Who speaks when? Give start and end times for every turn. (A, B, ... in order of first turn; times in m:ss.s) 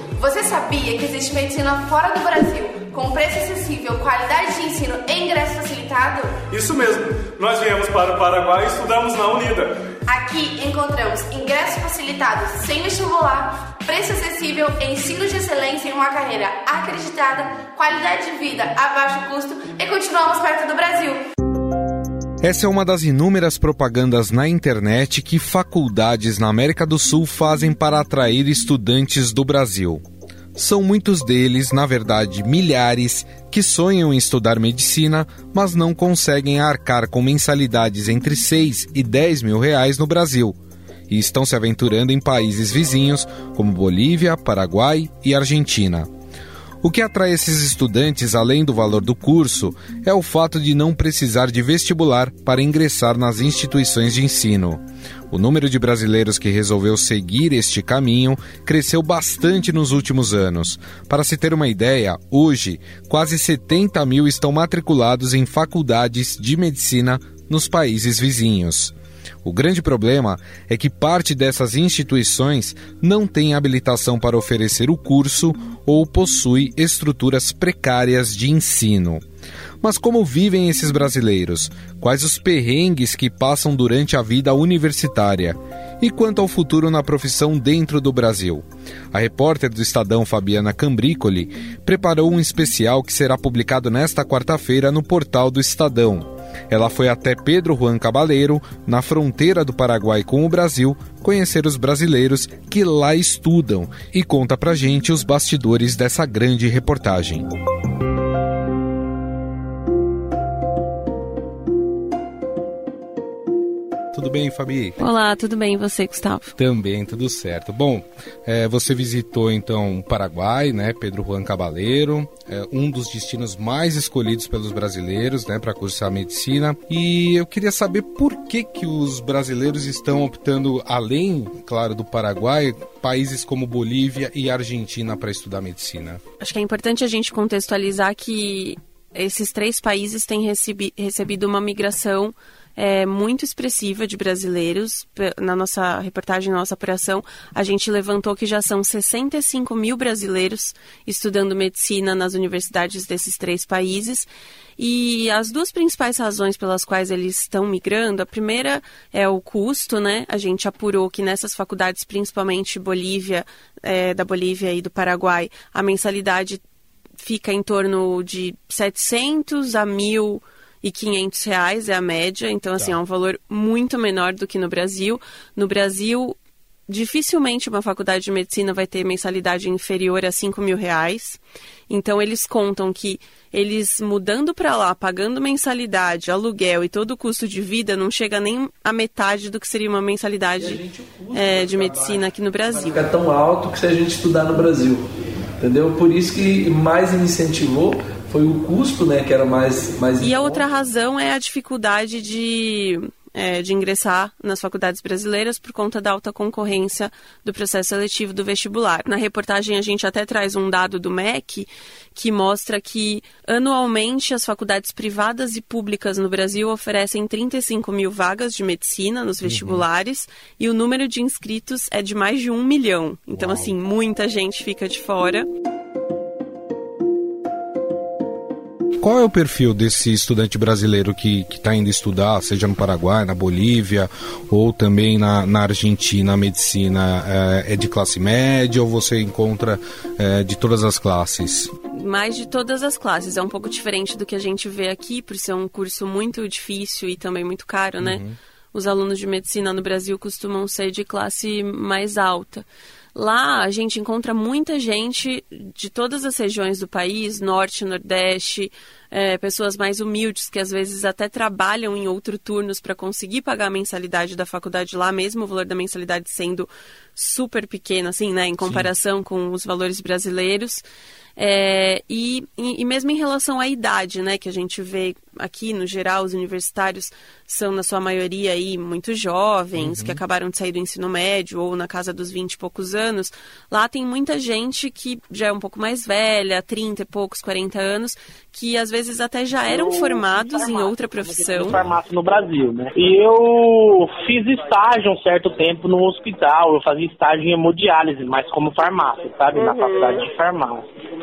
0:00.2-0:06.4 A
0:06.5-0:09.7 B
0:10.1-0:21.2 A
0:22.4-0:30.0 C
0:30.6-0:40.6 C
0:41.1-0:46.1 C
0:46.8-1:19.2 C
1:19.8-1:47.5 C
1:54.1-1:55.0 C
1:55.0-1:56.6 D
1:56.6-2:16.2 C
2:16.4-2:46.6 D
2:47.2-2:56.4 D
2:56.9-3:10.8 D
3:10.6-3:15.0 E
3:11.3-3:13.0 D
3:15.6-3:20.6 E
3:20.2-3:45.5 D
3:39.4-3:39.8 C
3:43.3-3:43.7 C
3:49.0-4:01.7 C
4:01.9-4:08.2 D
4:08.0-4:08.4 C
4:08.7-4:30.8 D
4:28.6-4:28.9 C
4:31.4-4:51.8 D
4:39.8-4:40.2 C
4:49.6-5:00.9 F
4:51.7-4:52.0 C